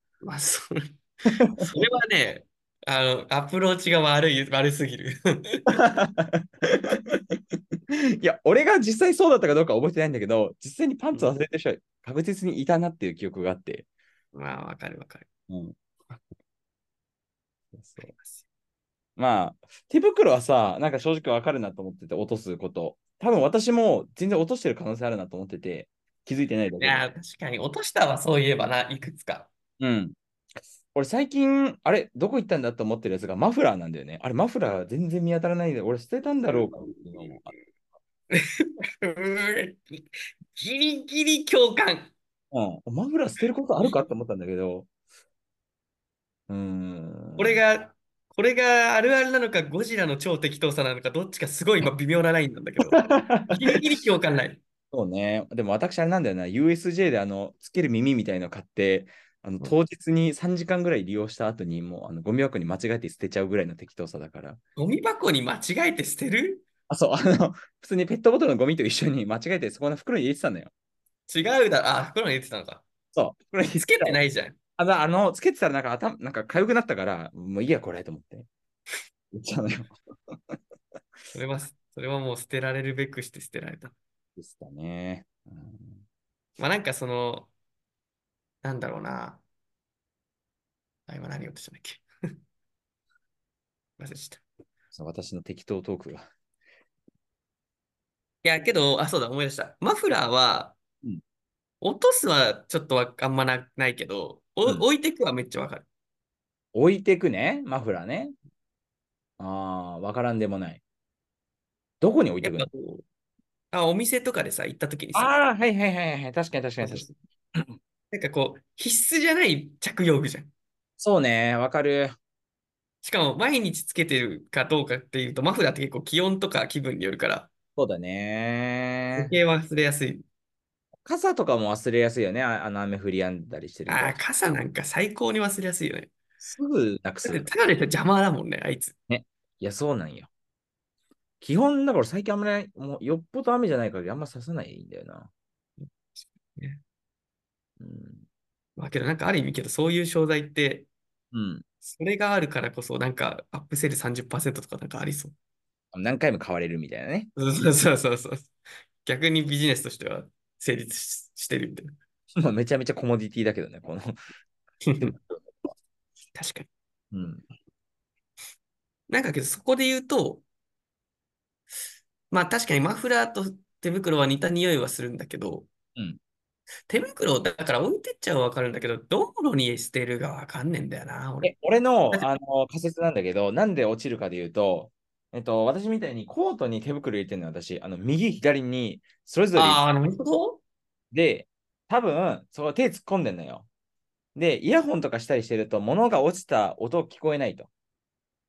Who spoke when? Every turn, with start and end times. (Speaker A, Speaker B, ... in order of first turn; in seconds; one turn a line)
Speaker A: 0.2-5.8
Speaker B: 1.5-1.7
Speaker B: 5.7-13.9
Speaker A: 11.1-11.4
Speaker A: 14.3-15.3
Speaker B: 15.5-15.8
Speaker B: 17.7-18.1
Speaker A: 18.0-18.4
Speaker B: 19.2-27.0
Speaker A: 26.8-29.5
Speaker B: 29.8-30.1
Speaker B: 30.9-37.5
Speaker A: 36.5-37.5
Speaker A: 38.3-40.0
Speaker A: 40.5-42.1
Speaker B: 42.5-44.9
Speaker B: 46.5-47.6
Speaker A: 47.4-54.6
Speaker B: 52.9-53.6
Speaker B: 54.9-64.6
Speaker A: 64.8-66.7
Speaker B: 66.9-70.7
Speaker A: 71.3-72.8
Speaker B: 73.1-74.2
Speaker A: 73.7-74.6
Speaker B: 74.8-78.5
Speaker B: 79.3-80.6
Speaker A: 81.3-83.9
Speaker B: 84.4-86.0
Speaker A: 86.6-87.5
Speaker A: 88.6-89.4
Speaker A: 91.1-92.0
Speaker A: 94.0-94.4
Speaker B: 94.9-96.3
Speaker A: 98.4-100.8
Speaker A: 101.8-105.9
Speaker B: 106.7-108.3
Speaker B: 109.4-110.8
Speaker B: 112.0-112.7
Speaker A: 112.4-113.0
Speaker A: 113.7-115.3
Speaker B: 115.1-117.8
Speaker A: 116.8-117.2
Speaker A: 118.1-120.5
Speaker B: 121.0-122.2
Speaker A: 123.0-127.5
Speaker B: 127.8-129.3
Speaker A: 129.2-130.2
Speaker B: 131.1-134.2
Speaker A: 133.9-136.1
Speaker B: 136.4-137.5
Speaker A: 137.2-138.9
Speaker B: 139.1-140.3
Speaker B: 141.4-145.3
Speaker A: 145.8-146.8
Speaker B: 147.8-148.2
Speaker A: 148.8-150.9
Speaker B: 151.3-151.6
Speaker A: 151.8-155.3
Speaker B: 155.9-157.3
Speaker A: 157.4-158.5
Speaker A: 159.0-161.9
Speaker B: 162.4-164.3
Speaker A: 164.8-165.1
Speaker B: 165.0-165.7
Speaker A: 166.4-166.7
Speaker B: 167.1-167.4
Speaker A: 169.1-170.4
Speaker A: 172.3-175.7
Speaker A: 176.9-181.5
Speaker B: 181.4-189.8
Speaker A: 189.6-190.6
Speaker B: 191.1-193.7
Speaker B: 194.4-197.7